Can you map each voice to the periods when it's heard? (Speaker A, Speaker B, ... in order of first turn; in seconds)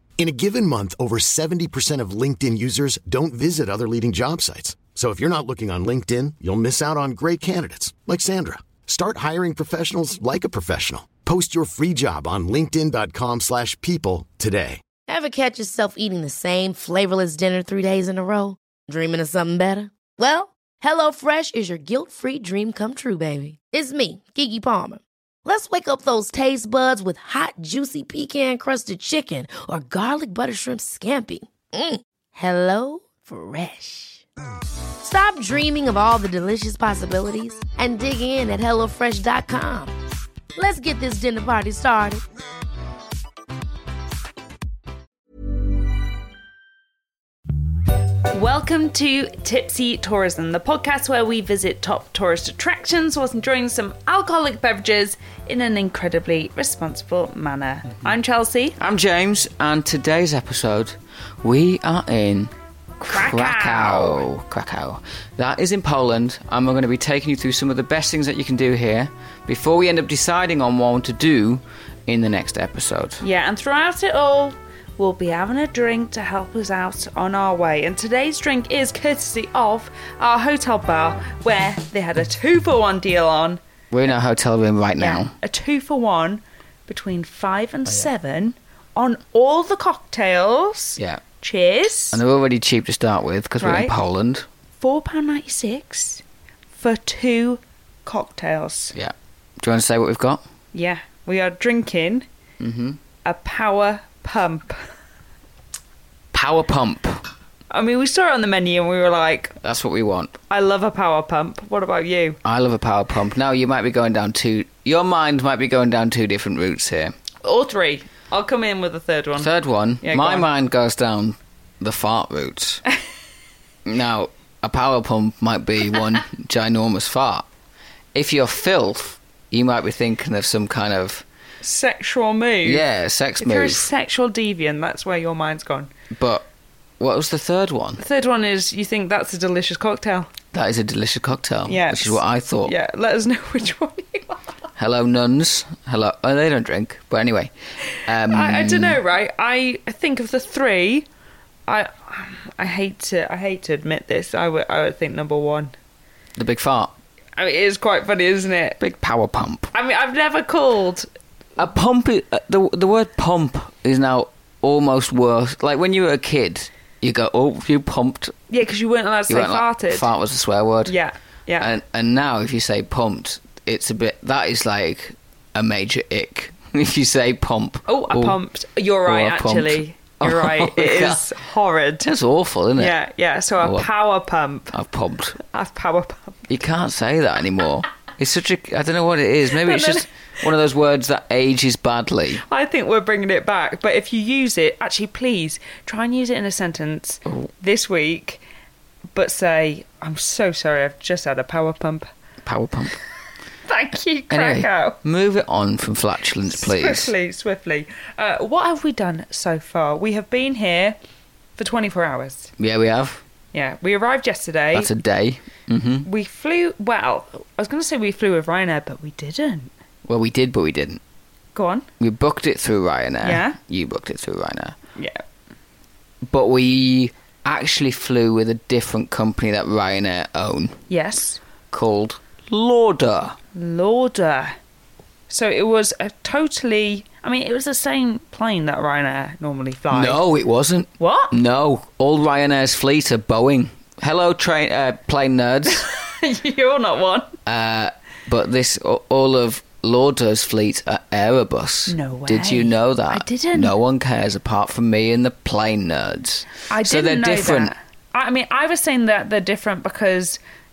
Speaker A: 0.2-14.8
Speaker B: 15.1-34.2, 35.0-39.9, 40.6-42.2
Speaker C: 48.3-58.8, 63.1-64.3, 73.2-83.6, 85.0-92.2, 93.6-93.9, 94.8-98.9, 100.7-102.3, 103.2-104.9, 107.7-109.6, 110.5-112.4, 117.4-119.5, 120.0-120.5, 131.6-132.8, 133.4-135.9, 138.0-140.3, 141.7-144.5, 147.9-151.1, 151.7-155.7, 157.4-158.8, 159.7-161.1, 168.5-170.1, 170.8-171.7, 177.9-182.1, 182.8-184.8, 185.4-186.5, 189.5-190.1, 192.5-198.4, 199.1-202.1, 203.7-205.0, 206.5-211.0, 211.6-212.5, 213.5-214.9, 216.0-219.7, 221.6-221.9, 223.2-223.6, 225.0-225.2, 230.9-231.4, 233.6-234.6, 235.3-240.2, 241.0-241.3, 245.7-247.3, 251.9-253.7, 256.7-260.4
Speaker D: 58.8-73.2, 83.9-85.3, 92.1-94.5, 98.9-100.4, 102.6-103.0, 106.3-107.3, 109.6-110.3, 112.4-117.2, 119.4-122.8, 123.8-127.5, 128.1-131.2, 132.6-133.9, 136.1-136.5, 137.0-138.0, 140.5-142.7, 144.8-147.5, 148.1-149.0, 156.4-156.9, 158.8-159.7, 161.6-168.3, 169.3-170.9, 171.6-178.4, 179.1-181.2, 182.0-182.9, 183.6-183.9, 184.7-185.4, 186.5-192.4, 202.4-202.9, 204.3-207.1, 212.6-213.2, 214.7-216.1, 220.1-221.0, 222.0-224.8, 226.3-230.8, 231.7-233.4, 239.9-245.9, 247.5-257.7